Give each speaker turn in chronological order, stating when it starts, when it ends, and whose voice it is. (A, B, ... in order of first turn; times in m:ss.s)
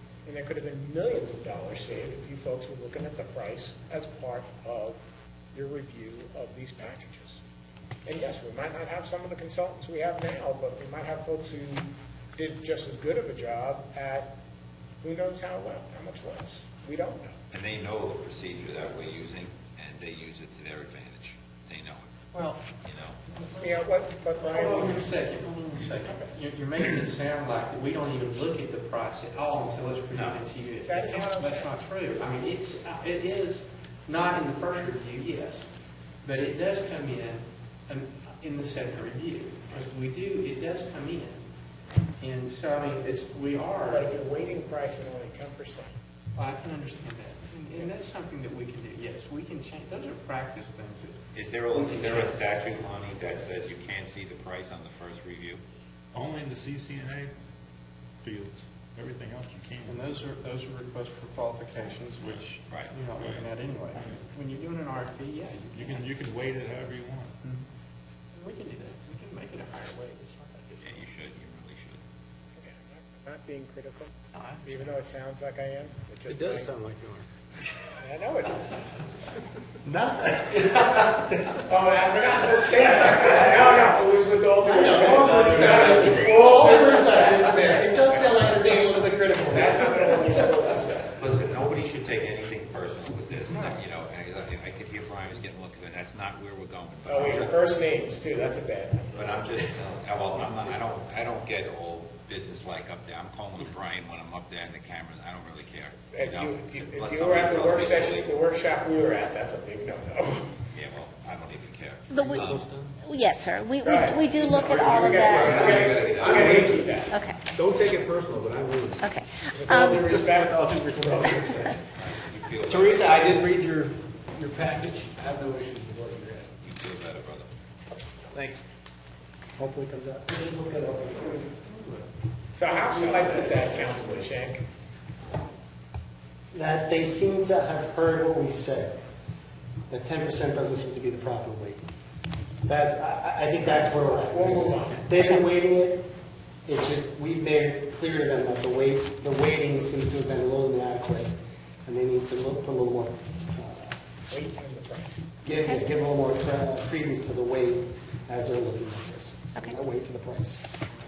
0:00.2-0:05.0 A
0:05.5-0:07.4 A
0:08.0-0:14.3 A
0:15.0-0:17.4 A
0:17.5-0:22.0 B
0:22.3-0:22.6 C
0:22.8-0:23.2 B
0:23.4-0:23.8 C
0:23.6-0:25.1 A
0:24.4-0:35.7 C
0:30.1-0:30.4 B
0:30.8-0:31.7 A
0:36.2-0:41.4 C
0:42.2-0:44.1 C
0:43.9-0:46.0 A
0:46.3-0:51.2 C
0:51.3-0:55.6 B
0:51.7-0:52.3 C
0:56.1-0:57.3 D
0:58.2-1:00.2 D
0:59.8-1:06.1 C
1:02.2-1:02.9 B
1:03.1-1:04.1 D
1:05.7-1:07.3 D
1:08.3-1:10.9 C
1:10.8-1:12.0 B
1:12.6-1:14.1 A
1:14.3-1:15.0 C
1:14.6-1:16.7 A
1:16.3-1:17.3 E
1:18.0-1:18.8 A
1:19.8-1:21.1 F
1:21.6-1:27.1 A
1:24.6-1:30.8 F
1:25.7-1:26.1 E
1:29.4-1:31.2 A
1:31.2-1:37.6 B
1:37.0-1:39.6 A
1:39.1-1:48.4 B
1:46.1-1:50.6 A
1:50.7-1:52.6 B
1:52.1-1:52.5 G
1:52.1-1:52.9 E
1:53.0-1:55.6 G
1:53.8-1:57.1 A
1:54.6-1:59.1 E
1:55.4-1:56.5 B
1:57.1-1:57.4 G
1:59.0-2:00.0 G
1:59.5-2:01.7 A
1:59.7-2:01.8 E
2:02.0-2:03.3 B
2:02.7-2:06.5 E
2:06.6-2:07.5 B
2:08.3-2:08.6 E
2:09.6-2:11.6 F
2:11.7-2:12.0 C
2:12.6-2:14.6 A
2:12.7-2:14.2 C
2:16.5-2:19.0 F
2:19.9-2:21.8 F
2:22.6-2:26.1 F
2:23.7-2:25.1 A
2:26.6-2:34.0 F
2:34.3-2:35.3 A
2:35.4-2:40.6 F